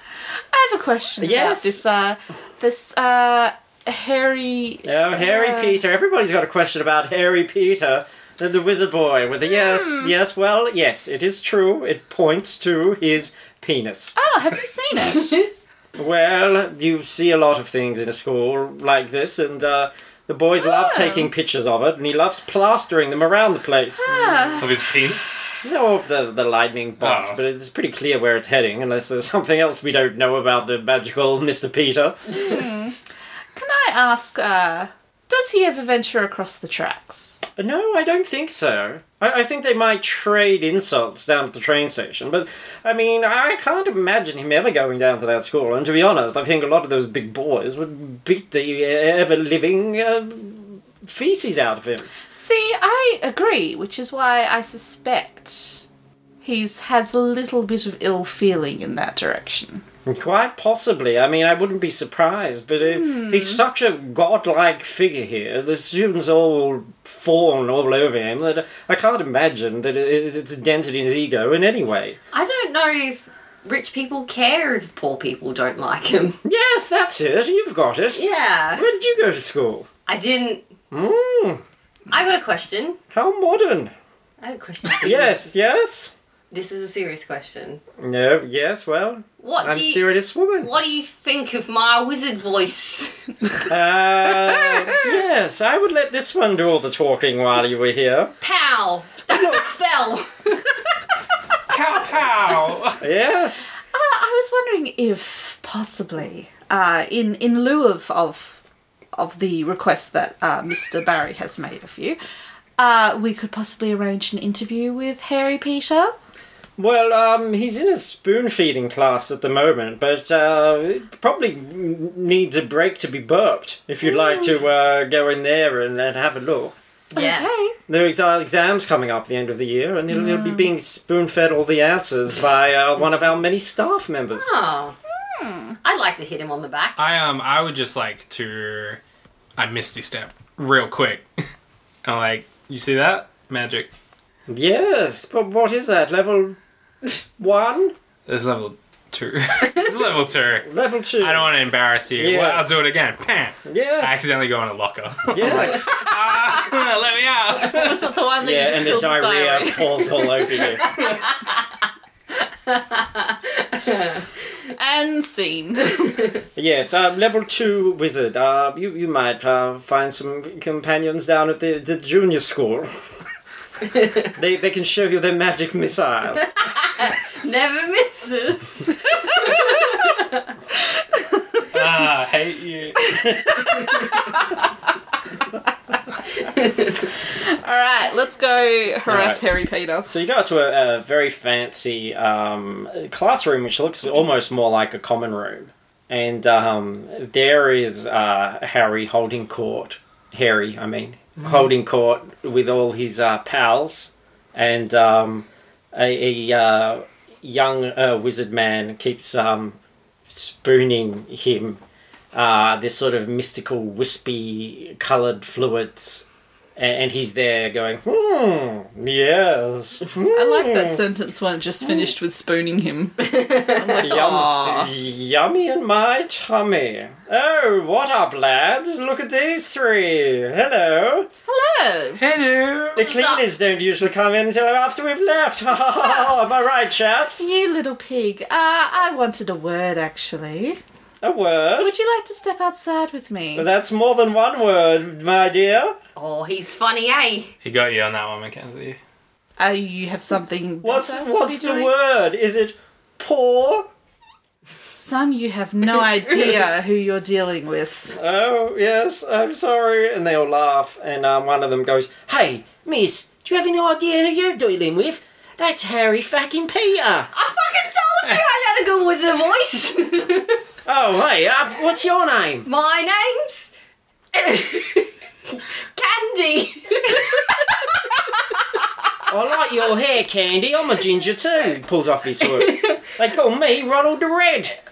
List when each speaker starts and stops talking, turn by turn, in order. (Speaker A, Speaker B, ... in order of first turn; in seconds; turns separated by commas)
Speaker A: 0.5-5.8, Speaker B: 1.2-1.8, Speaker B: 4.8-14.2, Speaker A: 14.2-15.4, Speaker B: 15.9-24.8, Speaker A: 20.6-21.3, Speaker A: 24.0-24.8, Speaker C: 24.6-25.3, Speaker B: 25.6-32.4, Speaker C: 27.0-27.4, Speaker A: 32.3-33.0, Speaker A: 33.5-37.4, Speaker B: 37.6-52.1, Speaker A: 52.3-55.9, Speaker A: 56.4-59.8, Speaker B: 60.0-72.2, Speaker A: 62.9-63.6, Speaker D: 72.3-76.4, Speaker B: 76.4-79.9, Speaker D: 78.2-78.8, Speaker D: 80.0-80.7, Speaker B: 80.9-81.6, Speaker D: 82.1-83.0, Speaker B: 83.1-83.9, Speaker D: 84.4-85.4, Speaker B: 85.0-86.1, Speaker D: 86.5-87.8, Speaker B: 88.0-90.7, Speaker D: 89.4-93.3, Speaker B: 93.7-98.3, Speaker D: 98.4-100.8, Speaker B: 99.3-99.6, Speaker C: 101.7-103.0, Speaker B: 103.0-103.7, Speaker A: 103.9-108.6, Speaker A: 109.2-112.2, Speaker A: 112.8-116.1, Speaker B: 116.8-126.7, Speaker D: 127.1-127.5, Speaker A: 127.1-127.8, Speaker B: 127.9-134.6, Speaker A: 130.1-130.7, Speaker D: 134.3-134.9, Speaker A: 135.2-135.8, Speaker D: 135.8-137.0, Speaker C: 137.0-139.0, Speaker C: 139.6-141.3, Speaker C: 142.0-143.9, Speaker B: 144.5-146.6, Speaker B: 147.4-147.9, Speaker C: 148.3-150.7, Speaker B: 150.6-151.5, Speaker C: 151.2-158.0, Speaker B: 152.1-152.7, Speaker B: 153.6-154.2, Speaker B: 155.3-155.9, Speaker A: 157.5-160.7, Speaker B: 158.4-160.9, Speaker D: 162.7-164.2, Speaker A: 164.7-166.2, Speaker B: 166.6-172.9, Speaker B: 174.3-176.4, Speaker D: 176.4-180.4, Speaker A: 179.2-179.9, Speaker A: 180.7-181.7, Speaker C: 181.7-183.1, Speaker A: 183.5-184.6, Speaker D: 183.8-184.1, Speaker D: 186.4-187.0, Speaker A: 187.1-190.1, Speaker B: 189.1-189.4, Speaker B: 190.1-209.8, Speaker B: 210.3-211.8, Speaker B: 212.3-216.2, Speaker B: 216.8-221.0, Speaker A: 220.3-224.9, Speaker D: 223.2-224.1, Speaker B: 224.0-231.3, Speaker A: 231.5-232.2, Speaker C: 232.2-233.1, Speaker B: 232.9-237.4, Speaker D: 233.0-233.4, Speaker A: 237.3-240.8, Speaker B: 241.2-241.9, Speaker A: 241.8-243.7, Speaker B: 243.5-245.9, Speaker D: 246.2-247.5, Speaker C: 247.6-249.0, Speaker A: 249.6-251.9, Speaker B: 250.8-253.9, Speaker A: 254.9-258.2, Speaker B: 258.1-267.3, Speaker D: 267.4-270.6, Speaker B: 270.9-272.7, Speaker D: 272.6-273.7, Speaker D: 274.3-277.8, Speaker B: 279.3-284.8, Speaker D: 282.4-283.1